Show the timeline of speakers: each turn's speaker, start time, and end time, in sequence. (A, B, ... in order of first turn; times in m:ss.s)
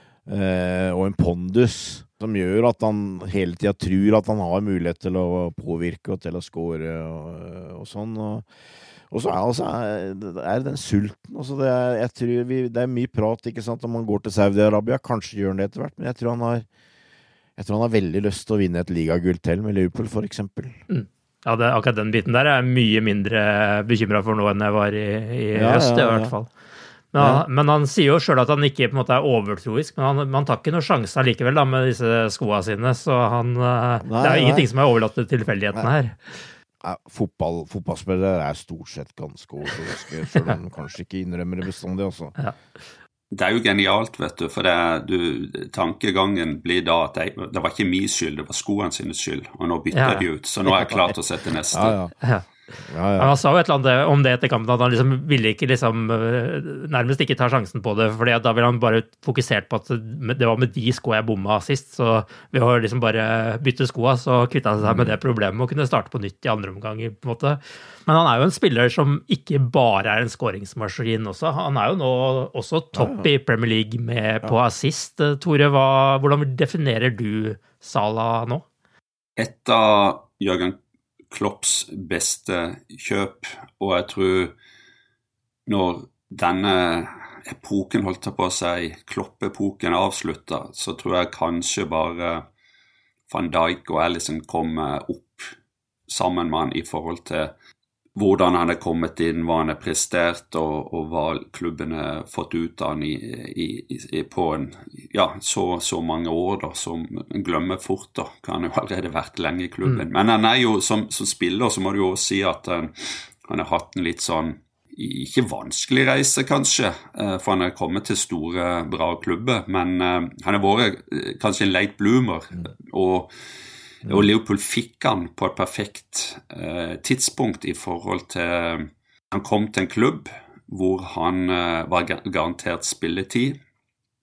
0:00.3-0:08.5 A
0:09.1-0:16.7 A
0:17.6-0:20.8 A
0:20.9-0:26.5 B
0:25.5-0:26.4 A
0:27.1-0:36.5 B
0:27.2-0:27.4 A
0:34.0-0:34.7 A
0:36.8-0:42.4 A
0:43.3-0:52.0 C
0:49.9-0:50.2 B
0:50.7-0:51.1 A
0:51.7-0:52.1 A
0:52.9-0:53.3 A
0:53.2-1:18.6 B
1:04.8-1:05.2 A
1:13.0-1:13.3 A
1:19.4-1:20.8 C
1:21.3-1:24.5 C
1:25.7-1:32.4 C
1:33.3-1:35.5 C
1:36.1-1:37.5 C
1:38.2-2:03.3 C
2:04.0-2:13.6 C